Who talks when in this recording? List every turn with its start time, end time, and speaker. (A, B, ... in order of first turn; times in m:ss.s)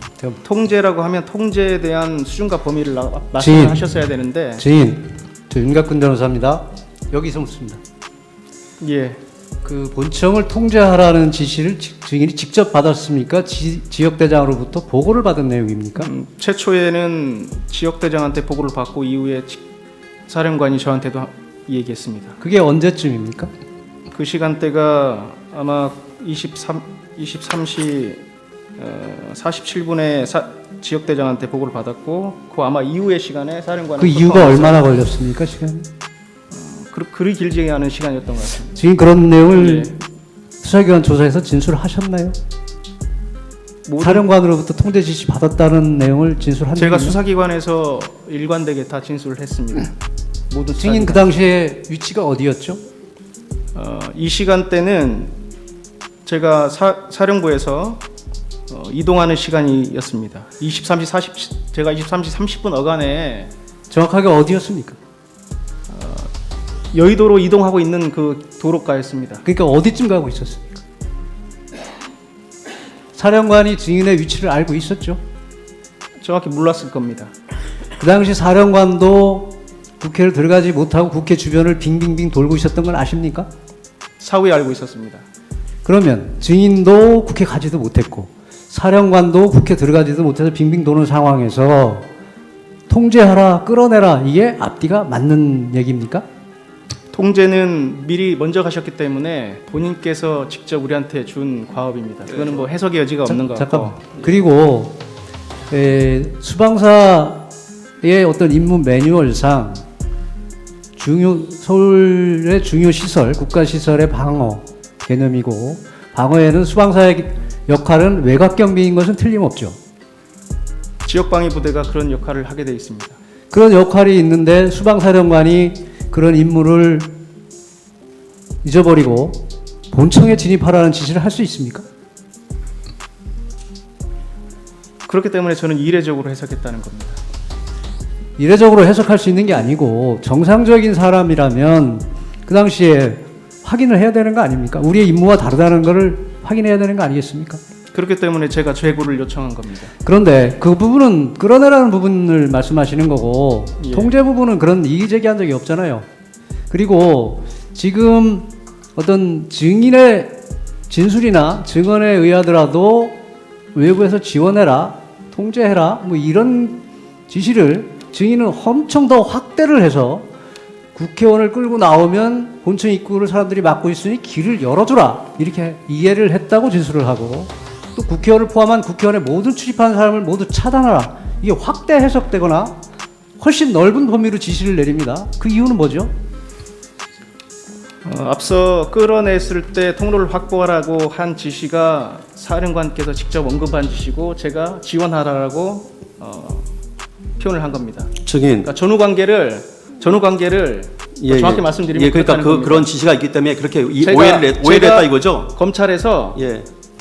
0:00.4-0:04.6 A
0:03.4-0:03.9 B
0:04.6-0:07.8 B
0:08.8-0:09.2 A
0:09.6-0:16.1 B
0:16.0-0:19.6 A
0:20.3-0:22.4 A
0:22.4-0:23.5 B
0:24.1-0:28.2 A
0:28.8-0:34.8 A
0:34.0-0:35.9 B
0:36.5-0:38.8 A
0:38.7-0:40.0 B
0:39.5-0:39.9 A
0:40.6-0:42.4 B
0:43.8-0:44.3 A
0:44.0-0:47.2 B
0:46.7-0:50.0 A
0:50.5-0:51.3 A
0:50.8-0:52.8 B
0:53.7-0:55.4 A
0:56.2-0:58.0 A
0:58.7-1:03.5 A
1:03.9-1:05.0 B
1:05.9-1:06.3 A
1:06.9-1:09.4 A
1:09.4-1:10.8 B
1:13.1-1:15.2 B
1:16.2-1:17.3 A
1:18.0-1:23.5 B
1:24.2-1:25.2 A
1:25.8-1:32.1 B
1:32.9-1:36.2 B
1:37.1-1:44.2 A
1:43.3-1:45.0 B
1:45.7-1:47.5 B
1:48.0-1:49.8 B
1:51.0-1:59.8 B
2:01.0-2:03.2 A
2:03.5-2:07.2 B
2:08.6-2:11.8 B
2:15.0-2:17.2 A
2:18.4-2:27.6 B
2:27.9-2:29.9 A
2:30.0-2:36.0 B
2:33.8-2:34.1 A
2:36.7-2:43.2 B
2:43.7-2:50.3 B
2:50.9-3:02.8 B
3:03.4-3:06.1 B
3:08.0-3:16.7 A
3:17.4-3:22.9 A
3:18.2-3:18.7 C
3:21.2-3:25.5 C
3:24.0-3:26.4 A
3:26.3-3:26.7 C